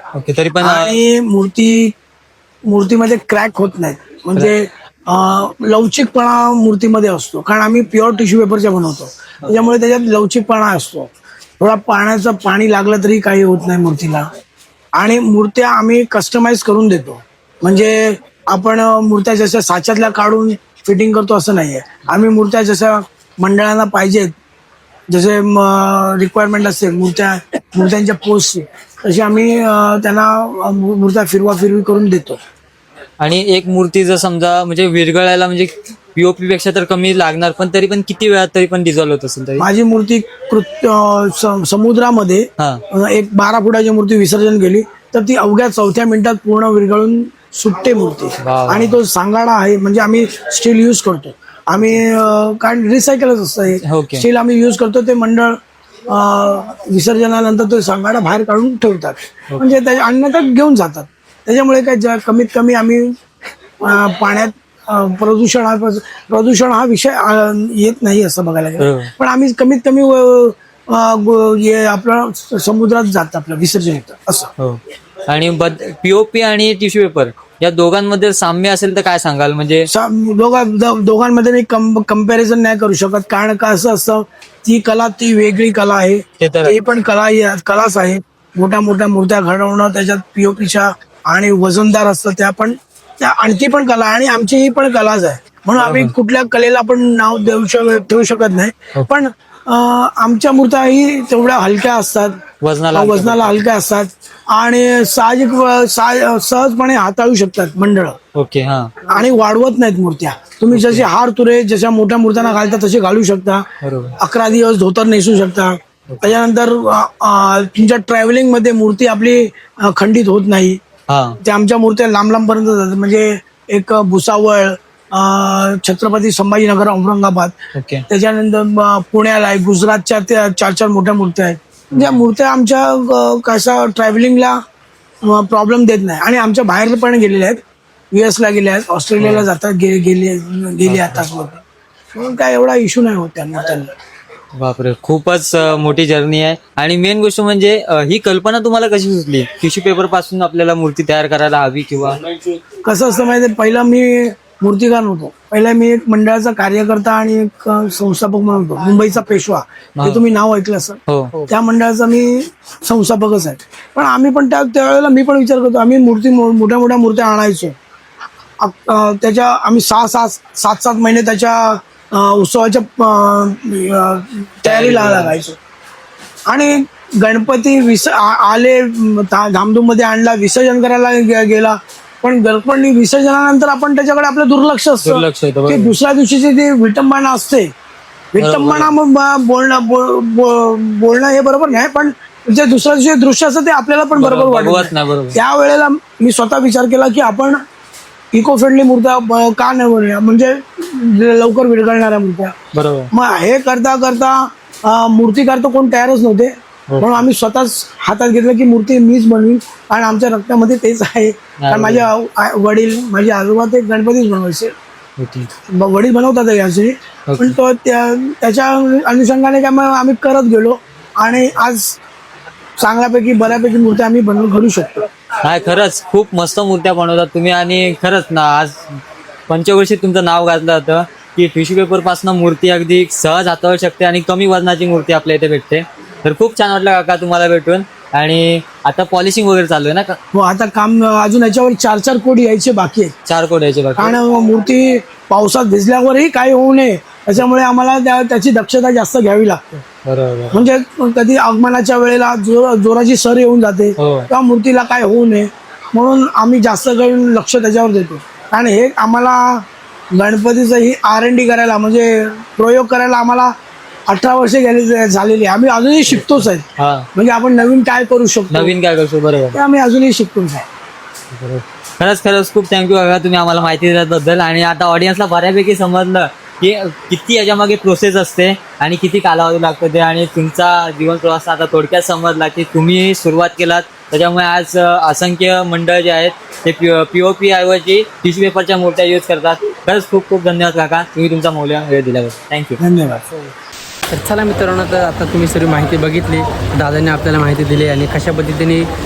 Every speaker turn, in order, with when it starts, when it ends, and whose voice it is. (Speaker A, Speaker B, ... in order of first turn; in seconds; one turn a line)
Speaker A: 0.1-1.0
Speaker B: 0.6-1.9
Speaker B: 2.7-11.1
Speaker B: 11.6-14.3
Speaker B: 14.9-24.3
Speaker B: 25.1-32.4
Speaker A: 33.2-39.6
Speaker B: 39.6-63.1
Speaker A: 48.4-49.0
Speaker A: 53.8-54.2
Speaker B: 63.8-74.5
Speaker A: 68.8-69.1
Speaker A: 74.6-79.9
Speaker B: 79.9-102.4
Speaker A: 86.4-86.8
Speaker A: 95.8-96.1
Speaker A: 102.6-103.6
Speaker B: 102.9-108.2
Speaker A: 108.3-109.0
Speaker B: 109.0-120.8
Speaker A: 110.7-111.1
Speaker A: 113.8-114.2
Speaker A: 116.1-116.4
Speaker A: 121.1-121.4
Speaker B: 121.4-127.5
Speaker A: 127.7-128.0
Speaker B: 128.1-134.6
Speaker A: 131.9-132.2
Speaker B: 135.2-137.6
Speaker B: 138.1-141.6
Speaker A: 139.2-139.4
Speaker A: 140.8-141.2
Speaker B: 142.1-143.9
Speaker A: 144.6-152.2
Speaker B: 152.8-167.8
Speaker A: 160.0-160.2
Speaker A: 161.1-161.4
Speaker B: 168.6-175.6
Speaker A: 174.6-175.4
Speaker B: 176.5-187.7
Speaker A: 185.0-185.9
Speaker B: 188.3-197.6
Speaker A: 188.4-188.9
Speaker A: 194.2-195.4
Speaker B: 198.3-202.6
Speaker A: 202.7-203.1
Speaker B: 203.1-214.7
Speaker A: 206.9-207.3
Speaker A: 211.6-212.1
Speaker A: 215.2-215.5
Speaker B: 215.7-222.0
Speaker A: 217.3-217.6
Speaker B: 222.8-225.1
Speaker A: 225.4-228.8
Speaker A: 229.5-240.2
Speaker B: 240.3-243.1
Speaker A: 243.2-244.2
Speaker B: 243.9-249.8
Speaker A: 250.0-250.6
Speaker B: 250.5-263.5
Speaker A: 254.0-254.3
Speaker B: 264.1-268.7
Speaker A: 266.1-267.1
Speaker A: 268.5-269.6
Speaker B: 269.5-270.6
Speaker A: 271.3-292.8
Speaker B: 292.8-293.2
Speaker C: 294.1-298.9